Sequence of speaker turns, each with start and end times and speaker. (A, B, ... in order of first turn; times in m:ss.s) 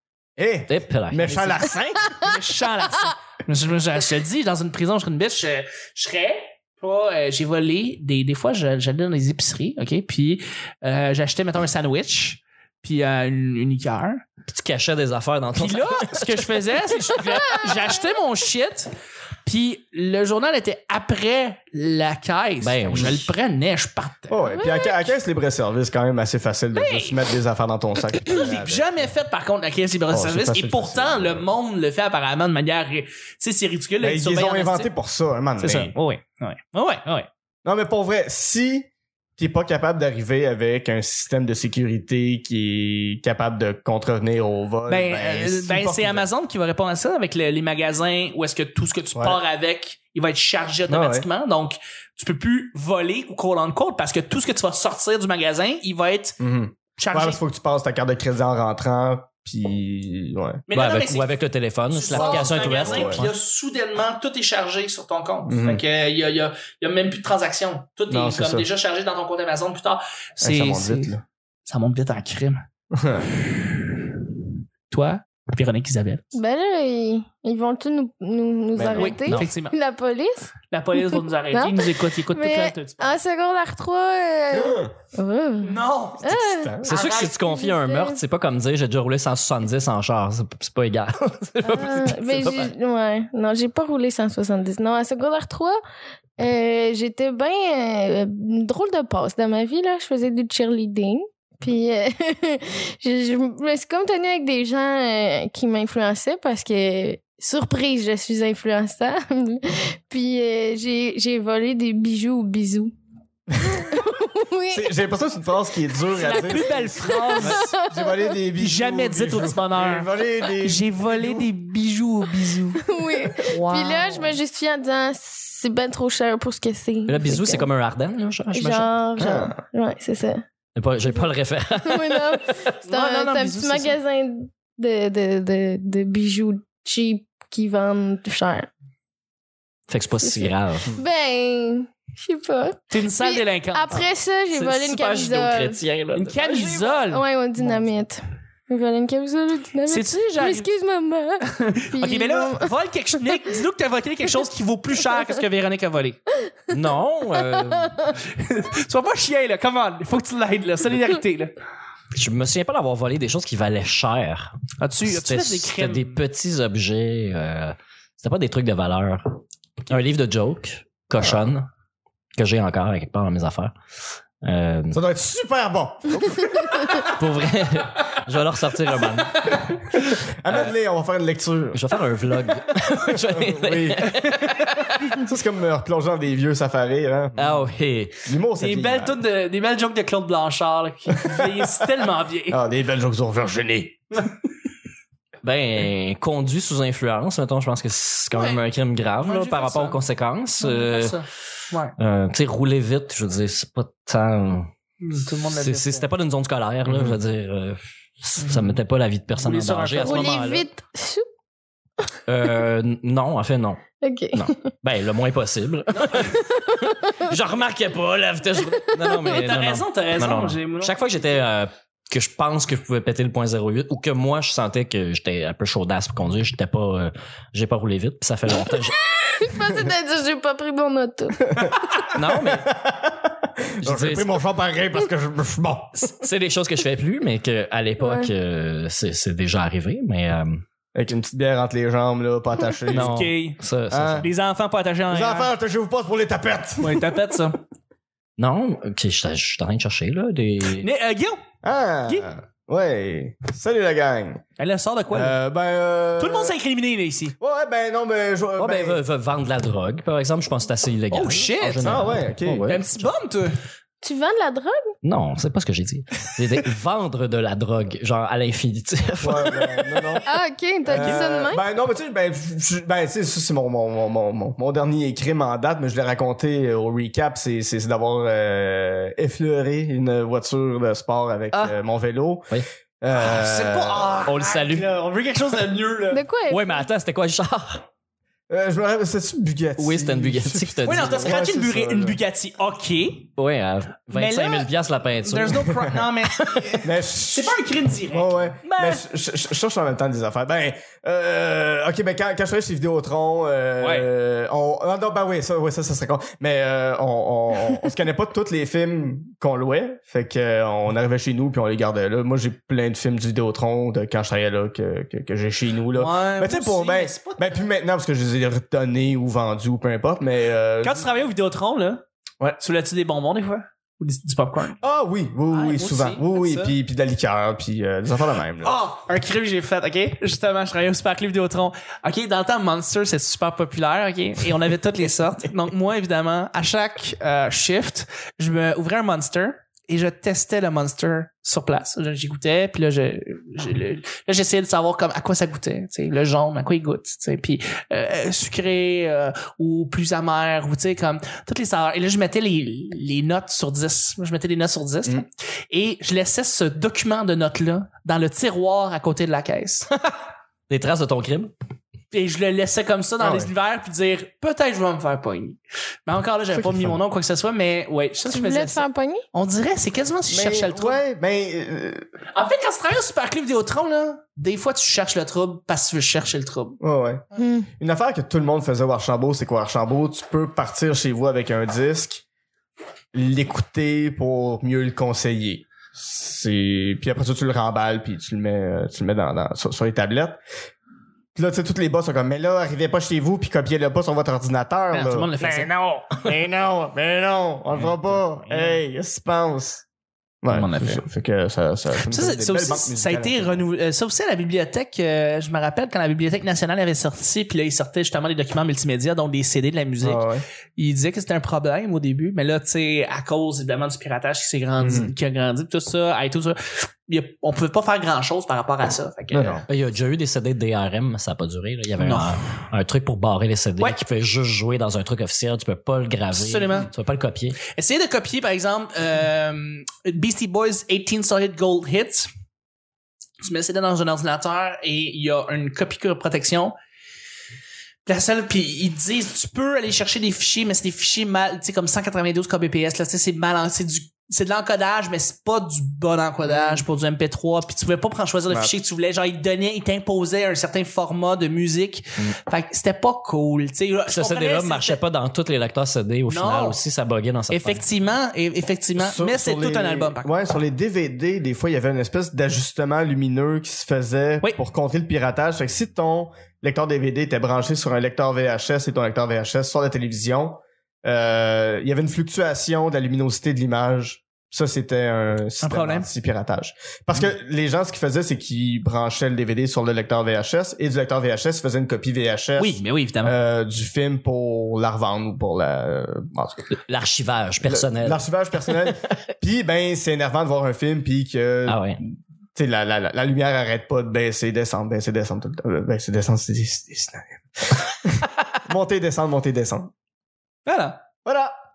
0:00.4-0:02.1 A
0:00.7-0:01.7 B
0:02.1-0:14.2 C
0:14.4-0:16.5 B
0:15.5-0:18.9 C
0:19.4-0:24.4 C
0:22.6-0:23.3 B
0:24.3-0:29.0 A
0:24.5-0:25.0 D
0:26.7-0:27.2 C
0:28.2-0:34.9 C
0:30.1-0:31.5 A
0:34.0-0:35.9 A
0:35.6-0:37.3 C
0:37.6-0:46.3 A
0:44.9-0:56.4 C
0:50.9-0:51.3 A
0:56.4-1:00.6 A
0:57.0-0:57.4 C
1:00.7-1:01.3 C
1:00.7-1:03.3 B
1:01.9-1:11.1 C
1:02.1-1:03.2 A
1:05.5-1:05.8 A
1:08.1-1:08.7 A
1:10.4-1:11.2 A
1:11.6-1:12.6 C
1:12.9-1:13.3 A
1:13.3-1:14.0 C
1:14.9-1:16.3 C
1:16.3-1:20.5 D
1:18.7-1:19.2 A
1:19.0-1:19.7 C
1:20.7-1:23.2 C
1:21.1-1:28.2 D
1:24.5-1:24.9 A
1:25.6-1:27.3 C
1:26.2-1:27.0 A
1:26.8-1:32.7 B
1:31.7-1:35.8 D
1:36.4-1:52.9 D
1:53.6-1:54.9 D
1:54.7-2:01.5 A
1:56.1-1:57.7 C
1:56.9-1:58.2 D
1:58.6-2:02.8 C
2:02.8-2:07.7 D
2:03.4-2:04.4 C
2:07.1-2:09.2 B
2:08.5-2:10.4 D
2:09.2-2:09.6 A
2:10.7-2:12.6 B
2:11.8-2:18.7 D
2:12.8-2:14.0 C
2:19.9-2:20.9 B
2:20.2-2:25.8 D
2:22.9-2:24.0 C
2:24.5-2:27.0 B
2:26.1-2:27.2 C
2:27.1-2:32.7 D
2:29.9-2:30.7 C
2:31.4-2:36.2 C
2:36.7-2:38.1 B
2:37.5-2:38.1 D
2:38.2-2:41.5 C
2:42.1-2:44.5 B
2:44.8-2:46.2 C
2:45.0-2:51.7 B
2:52.4-2:53.7 B
2:54.4-2:55.0 B
2:54.9-2:57.0 A
2:56.8-3:00.7 B
3:00.4-3:01.8 A
3:01.7-3:05.1 B
3:03.1-3:04.2 A
3:05.2-3:07.6 A
3:07.4-3:08.3 B
3:08.2-3:09.2 A
3:08.6-3:12.6 C
3:11.1-3:11.7 A
3:12.5-3:14.0 A
3:15.4-3:21.2 B
3:18.3-3:18.6 C
3:19.2-3:20.0 C
3:20.6-3:21.9 C
3:22.0-3:24.7 B
3:25.0-3:26.1 C
3:25.5-3:30.6 B
3:26.8-3:27.2 A
3:28.4-3:28.8 C
3:29.3-3:30.5 C
3:30.0-3:31.2 D
3:32.3-3:33.8 B
3:34.0-3:34.7 D
3:34.3-3:49.0 B
3:36.0-3:36.3 C
3:36.2-3:37.3 D
3:38.7-3:39.3 D
3:39.2-3:41.2 C
3:48.7-3:51.6 D
3:51.4-3:56.1 A
3:52.1-3:52.7 B
3:53.8-3:54.3 B
3:56.0-4:00.6 B
3:58.0-3:58.3 D
4:00.9-4:03.1 A
4:02.9-4:03.6 C
4:02.9-4:04.3 B
4:03.9-4:04.3 A
4:04.2-4:05.5 C
4:05.1-4:07.1 A
4:06.8-4:07.6 C
4:08.4-4:10.9 B
4:10.8-4:11.4 C
4:11.6-4:14.4 A
4:14.6-4:15.4 C
4:15.1-4:16.5 A
4:16.2-4:17.3 C
4:17.4-4:19.0 A
4:18.6-4:23.1 B
4:21.1-4:22.1 C
4:21.8-4:22.7 A
4:22.7-4:23.6 C
4:24.0-4:24.9 D
4:25.0-4:29.7 B
4:29.2-4:30.3 A
4:30.2-4:31.6 D
4:30.9-4:44.2 A
4:30.9-4:31.2 C
4:43.1-4:46.2 C
4:44.2-4:44.9 B
4:46.1-4:46.8 D
4:46.5-4:47.8 B
4:48.5-4:52.2 A
4:49.8-4:51.4 B
4:50.8-4:53.3 C
4:53.4-4:56.7 B
4:54.1-4:54.7 C
4:55.2-4:59.0 C
4:56.8-5:21.1 A
5:03.8-5:04.1 C
5:15.9-5:17.6 C
5:20.8-5:22.0 C
5:22.6-5:24.8 C
5:24.8-5:28.8 A
5:25.5-5:26.7 C
5:28.6-5:59.9 C
6:00.7-6:01.5 B
6:02.1-6:11.0 C
6:03.2-6:03.5 A
6:06.5-6:07.0 A
6:08.3-6:09.2 D
6:10.3-6:12.0 A
6:12.3-6:16.8 C
6:16.8-6:17.2 A
6:17.4-6:17.7 D
6:17.8-6:22.2 A
6:23.1-6:30.4 A
6:31.3-6:39.8 A
6:34.9-6:36.3 C
6:37.7-6:38.8 C
6:40.4-6:43.6 A
6:40.5-6:41.0 C
6:42.0-6:50.2 C
6:50.0-6:50.4 A
6:50.8-6:59.6 C
6:54.8-6:55.1 A
6:59.3-6:59.6 A
6:59.7-7:07.6 B
7:02.0-7:02.4 C
7:06.3-7:06.9 C
7:07.6-7:12.3 C
7:13.4-7:16.7 C
7:18.0-7:35.0 C
7:26.5-7:26.8 A
7:34.1-7:37.8 B
7:36.3-7:36.8 C
7:37.5-7:40.3 C
7:39.0-8:06.7 A
7:55.6-7:56.1 C
8:02.6-8:03.3 C
8:06.8-8:09.0 B
8:07.6-8:19.9 A
8:11.7-8:12.0 B
8:20.6-8:21.0 C
8:21.2-8:21.5 A